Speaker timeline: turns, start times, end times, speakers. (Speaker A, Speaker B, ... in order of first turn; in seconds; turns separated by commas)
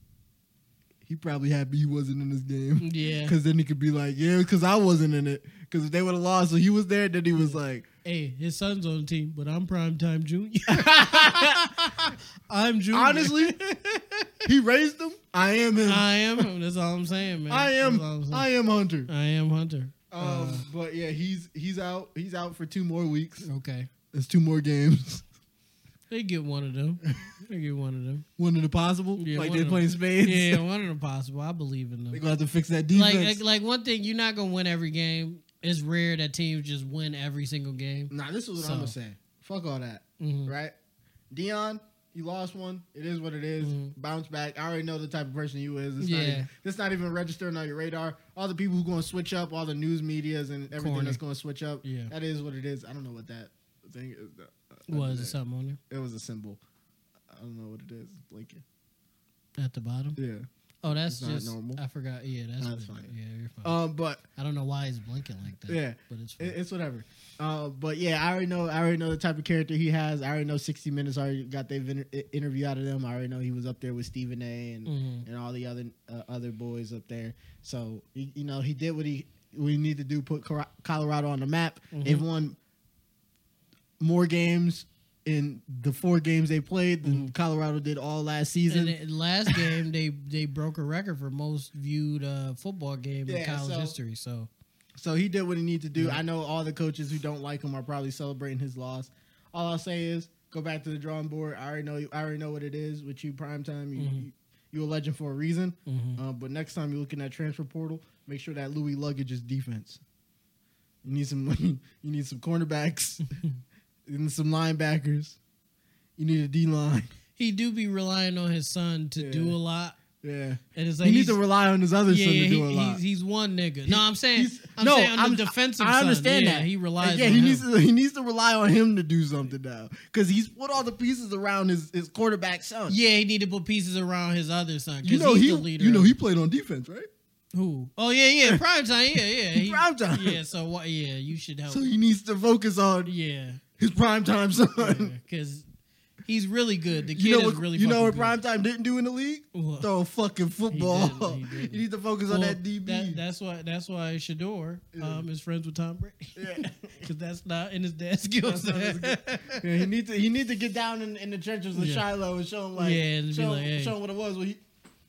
Speaker A: 1.1-7.9, Speaker B: 2.8-3.4, Speaker B: 7.4-14.5, Speaker A: 10.7-12.1, Speaker A: 12.9-13.6, Speaker A: 14.4-16.4, Speaker B: 15.8-18.5, Speaker A: 17.5-19.1, Speaker B: 19.1-20.6, Speaker A: 20.1-23.5, Speaker B: 23.4-23.9, Speaker A: 24.1-25.2, Speaker B: 26.1-28.3, Speaker A: 28.4-30.6, Speaker B: 29.2-32.2, Speaker A: 32.1-33.4, Speaker B: 32.9-38.9, Speaker A: 38.1-40.7, Speaker B: 40.2-40.5, Speaker A: 41.3-55.4, Speaker B: 43.6-43.9, Speaker B: 46.0-46.5, Speaker B: 50.7-51.2, Speaker B: 51.8-52.1, Speaker B: 54.9-55.8, Speaker A: 55.9-56.6, Speaker A: 57.3-58.6, Speaker B: 59.6-60.2, Speaker A: 60.1-60.5, Speaker B: 60.8-63.8, Speaker A: 61.0-61.8, Speaker A: 62.6-63.1, Speaker A: 63.6-64.2, Speaker B: 64.4-66.5, Speaker A: 65.7-82.6, Speaker B: 74.9-75.3, Speaker B: 81.9-82.2, Speaker A: 84.0-89.0, Speaker B: 88.7-94.5, Speaker A: 93.3-94.0, Speaker A: 95.0-110.0, Speaker B: 96.0-96.2, Speaker B: 104.0-104.2, Speaker B: 105.9-106.2, Speaker A: 111.0-113.2, Speaker B: 113.3-113.6, Speaker A: 114.1-115.4, Speaker A: 116.2-117.1, Speaker B: 117.4-120.0, Speaker A: 119.2-119.6, Speaker A: 120.2-123.0, Speaker B: 120.7-121.4, Speaker B: 122.1-127.6, Speaker A: 123.9-133.0, Speaker B: 132.9-136.1, Speaker A: 135.0-137.1, Speaker B: 137.5-141.9, Speaker A: 139.5-140.4, Speaker A: 141.7-143.1, Speaker B: 143.1-143.6, Speaker A: 143.8-145.1, Speaker B: 144.8-145.6, Speaker B: 146.3-148.4, Speaker A: 147.1-153.2, Speaker B: 149.5-149.9, Speaker B: 150.7-159.9, Speaker A: 154.9-155.2, Speaker A: 156.4-157.1, Speaker A: 158.4-164.6, Speaker B: 161.7-162.1, Speaker B: 162.8-163.9